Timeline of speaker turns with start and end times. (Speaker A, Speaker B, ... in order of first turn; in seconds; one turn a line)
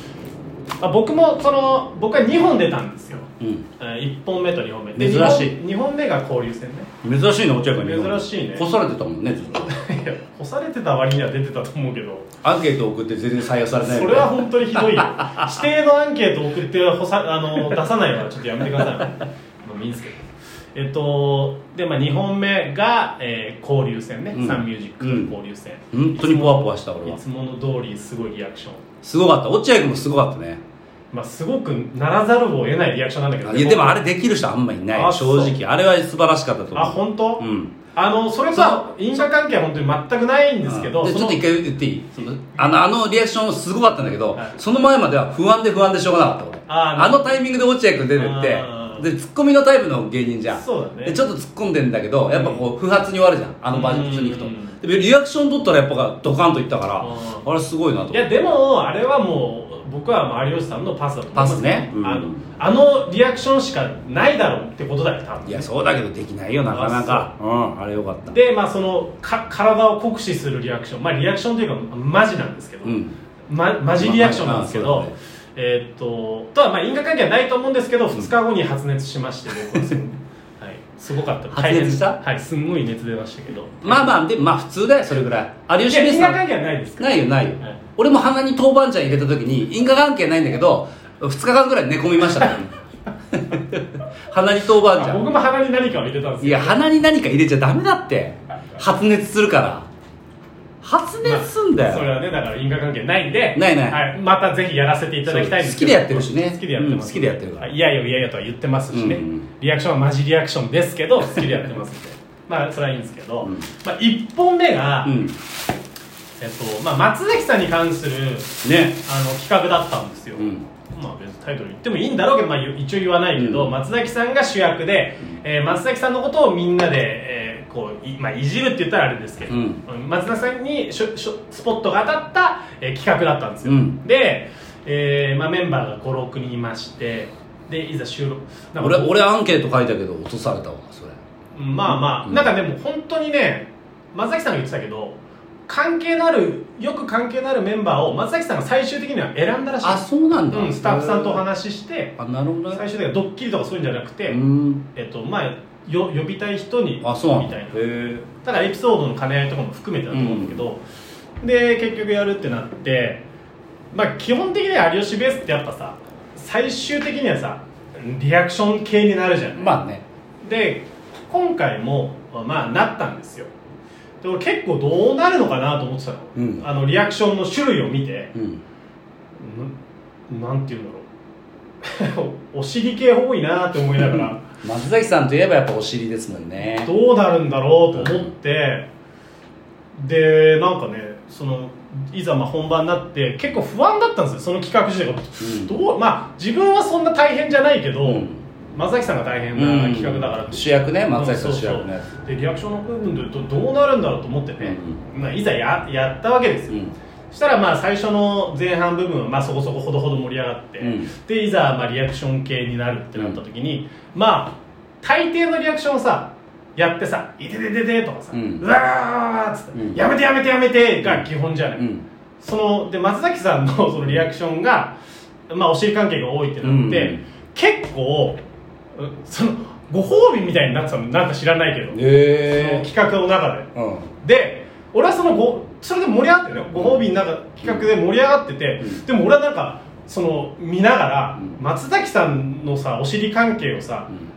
Speaker A: 0.8-6.9
Speaker B: 3.4-3.7
Speaker B: 5.0-5.5
Speaker B: 7.0-9.8
Speaker A: 7.7-8.7
Speaker A: 9.6-12.3
Speaker B: 12.4-15.5
Speaker A: 13.8-28.9
Speaker B: 24.4-25.3
Speaker B: 25.9-27.2
Speaker B: 29.0-30.6
Speaker A: 31.1-34.0
Speaker B: 33.4-37.8
Speaker A: 34.9-35.5
Speaker A: 36.7-41.4
Speaker B: 38.5-38.8
Speaker B: 40.6-58.3
Speaker A: 46.7-47.4
Speaker A: 48.2-49.1
Speaker A: 50.5-51.2
Speaker A: 52.3-52.7
Speaker A: 53.7-54.8
Speaker A: 57.0-57.5
Speaker A: 58.1-65.7
Speaker B: 61.4-62.4
Speaker B: 65.5-68.4
Speaker A: 66.7-67.3
Speaker A: 68.3-84.1
Speaker B: 72.8-73.1
Speaker B: 74.0-75.2
Speaker B: 81.5-82.2
Speaker B: 83.8-86.4
Speaker A: 85.9-87.8
Speaker B: 87.0-92.8
Speaker B: 93.3-95.2
Speaker A: 94.9-96.8
Speaker B: 96.4-99.9
Speaker B: 100.8-102.1
Speaker A: 101.2-115.2
Speaker B: 103.5-104.0
Speaker B: 105.3-107.7
Speaker B: 108.9-109.5
Speaker B: 113.4-113.7
Speaker B: 115.0-115.4
Speaker A: 116.4-139.2
Speaker B: 118.6-119.0
Speaker B: 120.4-120.7
Speaker B: 123.3-123.7
Speaker B: 129.5-129.8
Speaker B: 133.7-134.0
Speaker B: 138.8-141.2
Speaker A: 141.5-152.2
Speaker B: 141.9-142.5
Speaker B: 149.8-151.4
Speaker B: 152.2-152.8
Speaker A: 152.7-154.4
Speaker B: 154.3-154.9
Speaker A: 154.9-157.8
Speaker B: 157.0-158.3
Speaker A: 158.3-160.8
Speaker B: 160.1-160.6
Speaker A: 161.4-163.2
Speaker A: 163.9-169.8
Speaker B: 169.6-170.0
Speaker A: 170.4-173.5
Speaker A: 174.2-178.3
Speaker B: 176.4-176.7
Speaker B: 178.3-178.6
Speaker A: 179.4-179.7
Speaker A: 180.3-181.1
Speaker A: 181.8-184.4
Speaker B: 184.0-186.9
Speaker A: 186.7-188.9
Speaker B: 187.9-188.3
Speaker A: 189.9-221.8
Speaker B: 195.4-195.8
Speaker B: 198.0-198.4
Speaker B: 199.6-202.1
Speaker B: 204.6-205.0
Speaker B: 210.8-211.1
Speaker B: 218.3-218.6
Speaker B: 219.7-220.0
Speaker B: 221.0-222.0
Speaker A: 222.4-224.9
Speaker A: 225.5-228.4
Speaker B: 226.6-227.2
Speaker A: 228.9-233.7
Speaker B: 231.9-232.9
Speaker B: 233.8-234.1
Speaker A: 234.2-244.1
Speaker B: 236.8-237.1
Speaker B: 237.6-237.9